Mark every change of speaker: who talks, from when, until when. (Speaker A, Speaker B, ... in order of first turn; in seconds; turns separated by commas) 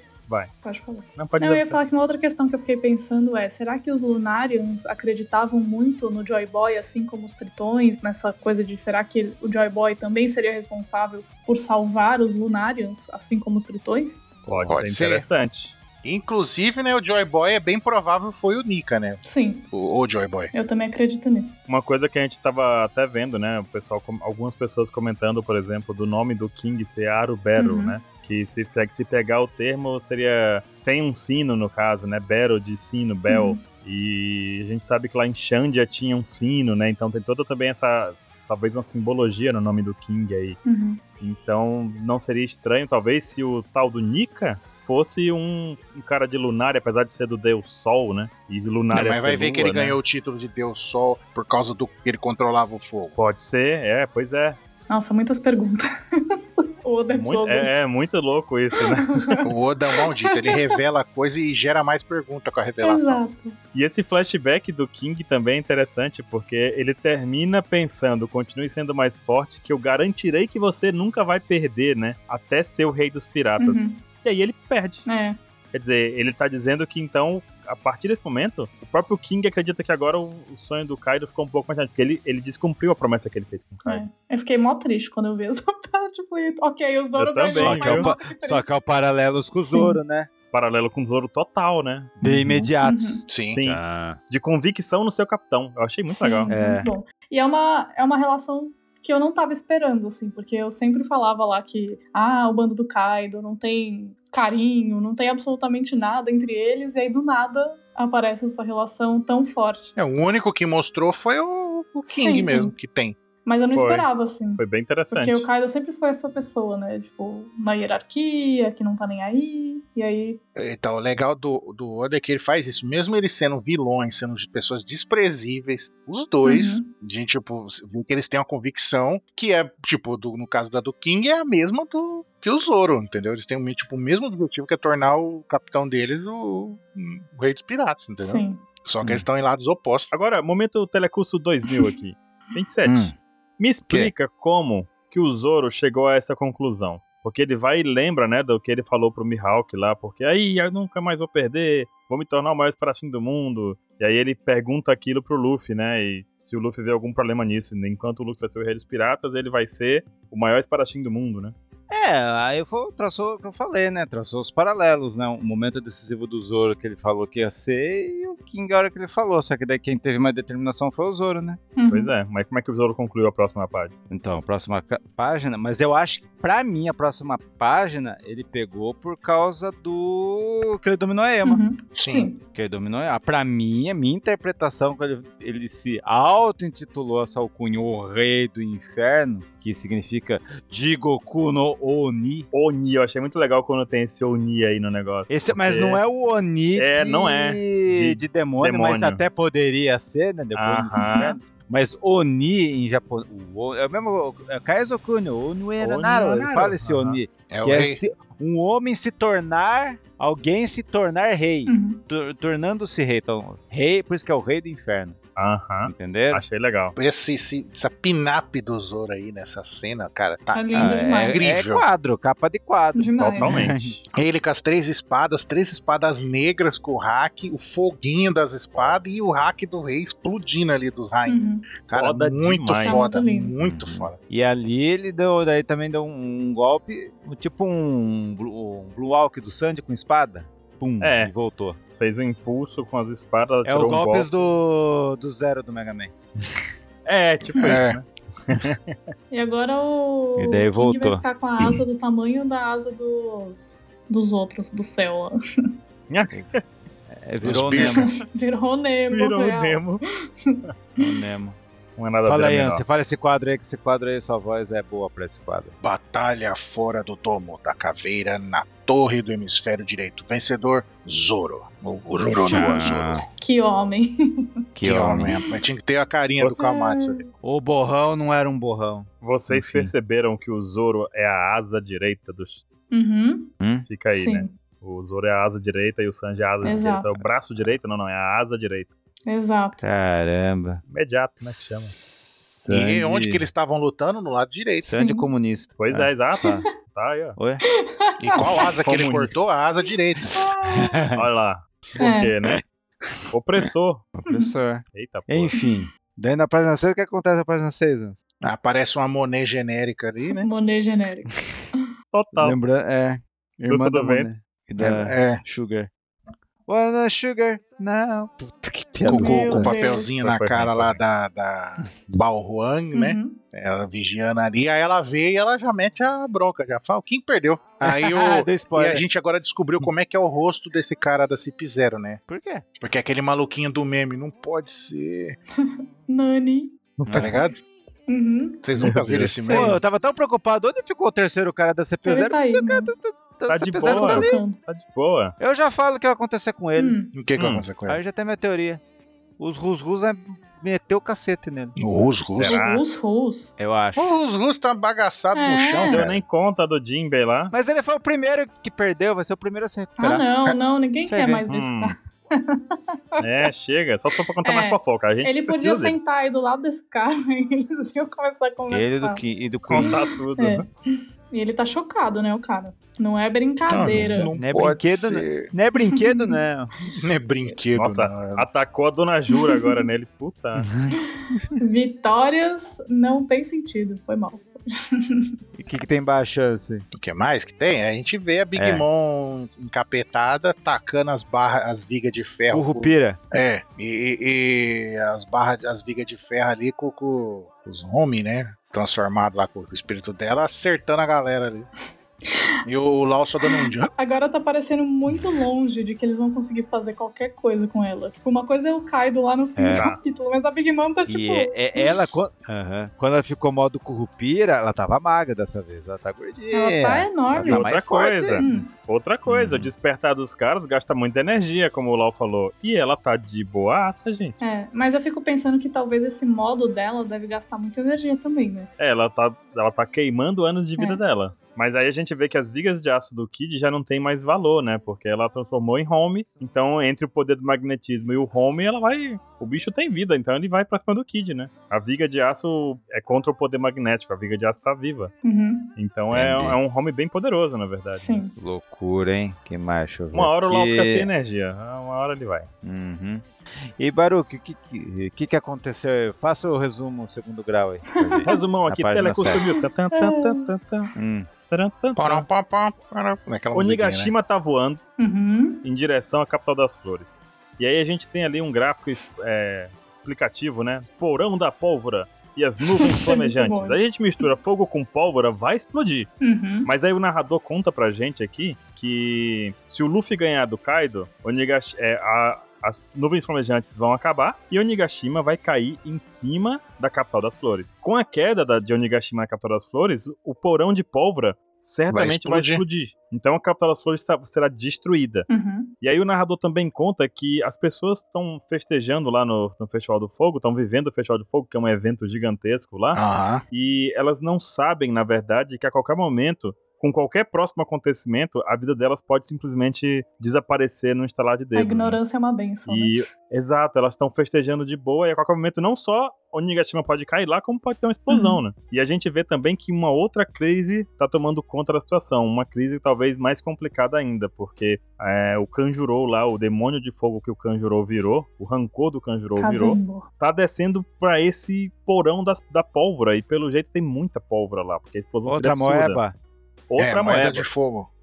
Speaker A: 0.6-14.2, Speaker B: 1.2-1.8, Speaker C: 14.5-15.3, Speaker B: 14.5-15.8, Speaker C: 16.0-20.5, Speaker A: 19.2-19.7, Speaker A: 20.5-21.6, Speaker B: 21.7-40.6, Speaker A: 27.6-28.0, Speaker A: 33.3-33.6, Speaker A: 40.6-41.0, Speaker B: 41.2-50.0, Speaker C: 48.9-53.2, Speaker B: 53.2-54.6, Speaker A: 54.9-57.7, Speaker B: 57.1-59.4, Speaker A: 58.8-59.4, Speaker C: 59.4-63.2, Speaker A: 60.0-60.6, Speaker A: 62.8-63.6, Speaker B: 63.7-75.1, Speaker A: 73.6-74.0, Speaker A: 75.1-75.4, Speaker B: 75.7-84.0, Speaker A: 83.8-88.8, Speaker B: 87.2-88.1, Speaker D: 87.6-90.3, Speaker A: 89.6-90.0, Speaker B: 90.5-92.7, Speaker D: 92.2-94.2, Speaker A: 92.8-93.2, Speaker C: 93.3-93.6, Speaker B: 93.5-96.5, Speaker A: 96.1-109.9, Speaker D: 96.5-96.9, Speaker C: 110.0-113.2, Speaker A: 112.1-112.7, Speaker A: 113.5-120.4, Speaker B: 113.8-115.5, Speaker C: 120.6-140.1, Speaker A: 126.5-126.9, Speaker A: 138.2-138.7, Speaker B: 140.1-161.6, Speaker D: 142.8-143.1, Speaker D: 161.9-171.6, Speaker A: 171.8-172.1, Speaker B: 171.9-173.9, Speaker D: 174.1-181.6, Speaker A: 181.4-182.4, Speaker C: 182.0-182.3, Speaker D: 182.5-192.5, Speaker B: 192.5-196.0, Speaker D: 195.3-215.2, Speaker B: 196.8-199.2, Speaker B: 200.6-201.4, Speaker A: 200.9-201.3, Speaker B: 205.8-207.2, Speaker C: 207.5-208.0, Speaker A: 211.7-212.0, Speaker B: 215.4-217.0, Speaker D: 215.8-216.4, Speaker C: 217.0-221.8, Speaker A: 220.5-221.5, Speaker D: 220.7-223.9, Speaker A: 222.9-223.6, Speaker B: 223.3-224.0, Speaker C: 224.2-234.2, Speaker A: 231.3-231.7, Speaker B: 231.9-233.2, Speaker A: 232.8-233.5, Speaker D: 233.6-241.8, Speaker B: 241.0-241.3, Speaker B: 242.0-244.3, Speaker D: 243.7-246.7, Speaker B: 247.1-249.0, Speaker C: 247.6-248.0, Speaker A: 249.3-255.3, Speaker D: 250.4-251.7, Speaker B: 256.1-256.6, Speaker D: 257.1-258.1, Speaker C: 257.4-258.1, Speaker A: 257.8-259.9, Speaker B: 259.1-260.0, Speaker D: 261.0-261.6, Speaker B: 262.0-262.8, Speaker D: 262.2-265.8, Speaker C: 265.8-273.2, Speaker D: 272.4-273.2, Speaker A: 273.4-274.4, Speaker D: 274.8-275.4, Speaker C: 274.8-277.3, Speaker B: 276.4-276.8, Speaker A: 276.6-277.3, Speaker D: 277.4-279.9, Speaker B: 279.2-282.6, Speaker A: 282.9-283.5, Speaker D: 283.6-283.9, Speaker B: 283.9-288.9, Speaker A: 284.1-284.5, Speaker A: 286.6-287.1, Speaker D: 287.2-287.8, Speaker A: 289.3-289.8, Speaker D: 289.8-290.8, Speaker B: 290.9-291.9, Speaker D: 291.4-293.5, Speaker C: 292.7-294.9, Speaker D: 294.9-296.6, Speaker A: 294.9-295.3, Speaker B: 295.8-297.4, Speaker D: 297.4-297.6, Speaker A: 297.9-298.6, Speaker C: 298.2-300.4, Speaker B: 298.8-299.3, Speaker D: 300.2-301.2, Speaker A: 300.3-301.0, Speaker B: 301.2-302.6, Speaker A: 302.0-302.3, Speaker D: 302.5-303.6, Speaker B: 303.3-304.1, Speaker D: 304.2-308.2, Speaker A: 304.3-304.5, Speaker B: 304.9-305.6, Speaker A: 305.6-305.9, Speaker C: 308.4-310.5, Speaker A: 310.4-311.3, Speaker B: 312.1-312.6, Speaker D: 312.4-315.9, Speaker B: 313.7-314.3, Speaker C: 314.8-315.4, Speaker D: 316.7-319.8, Speaker C: 319.0-332.2, Speaker A: 319.1-320.1, Speaker B: 320.2-321.0, Speaker A: 322.9-323.4, Speaker D: 327.8-329.1, Speaker D: 332.3-332.6, Speaker C: 332.8-335.4, Speaker A: 335.6-336.8, Speaker B: 337.0-337.4, Speaker D: 337.1-337.4, Speaker C: 337.1-337.6, Speaker A: 338.1-338.6, Speaker C: 338.6-339.8, Speaker B: 338.8-339.4, Speaker A: 339.4-339.7, Speaker D: 339.5-344.4, Speaker A: 342.1-342.9, Speaker B: 343.5-345.3, Speaker A: 343.8-344.6, Speaker D: 345.4-347.0, Speaker A: 346.8-347.1, Speaker C: 347.1-348.0, Speaker B: 347.4-347.6, Speaker D: 347.9-348.8, Speaker D: 349.4-351.8, Speaker C: 351.8-352.6, Speaker B: 352.3-352.8, Speaker A: 352.5-353.5, Speaker D: 353.6-354.1, Speaker C: 354.0-356.2, Speaker A: 355.4-356.1, Speaker B: 355.9-357.5, Speaker D: 357.5-360.3, Speaker A: 360.0-363.5, Speaker D: 361.1-361.4, Speaker B: 361.5-361.9, Speaker B: 363.2-366.0, Speaker A: 364.4-369.2, Speaker D: 368.7-370.0, Speaker B: 369.7-370.7, Speaker A: 369.8-374.3, Speaker C: 373.7-375.5, Speaker D: 374.4-376.7, Speaker A: 376.0-376.4, Speaker C: 376.9-378.5, Speaker B: 377.8-380.7, Speaker A: 379.4-379.8, Speaker D: 380.6-381.5, Speaker A: 381.6-385.3, Speaker D: 385.6-386.9, Speaker C: 386.9-401.7, Speaker D: 388.6-388.9, Speaker D: 392.5-393.2, Speaker C: 402.6-403.9, Speaker A: 403.4-412.0, Speaker D: 409.6-409.9, Speaker B: 409.7-410.0, Speaker D: 411.1-418.6, Speaker A: 416.5-417.7, Speaker B: 417.3-424.4, Speaker A: 418.4-418.7, Speaker D: 419.3-419.7, Speaker A: 424.4-428.7, Speaker B: 428.8-445.1, Speaker A: 445.2-445.7, Speaker B: 445.8-448.2, Speaker D: 446.1-446.6, Speaker A: 447.9-448.3, Speaker D: 448.4-451.1, Speaker B: 450.1-452.5, Speaker D: 452.6-459.4, Speaker A: 458.1-458.4, Speaker B: 458.2-460.9, Speaker A: 459.4-460.4, Speaker D: 461.0-461.3, Speaker B: 461.5-462.3, Speaker C: 462.0-464.1, Speaker B: 463.5-464.8, Speaker A: 465.0-465.6, Speaker B: 465.6-476.1, Speaker A: 472.8-473.8, Speaker A: 476.2-476.7, Speaker B: 476.6-495.3, Speaker C: 491.9-492.6, Speaker A: 495.3-495.7, Speaker B: 495.8-512.0, Speaker C: 502.9-503.4, Speaker A: 511.6-513.0, Speaker B: 512.7-536.0, Speaker A: 518.1-518.4, Speaker A: 529.4-530.1, Speaker D: 535.3-536.1, Speaker B: 536.7-537.5, Speaker C: 536.8-537.9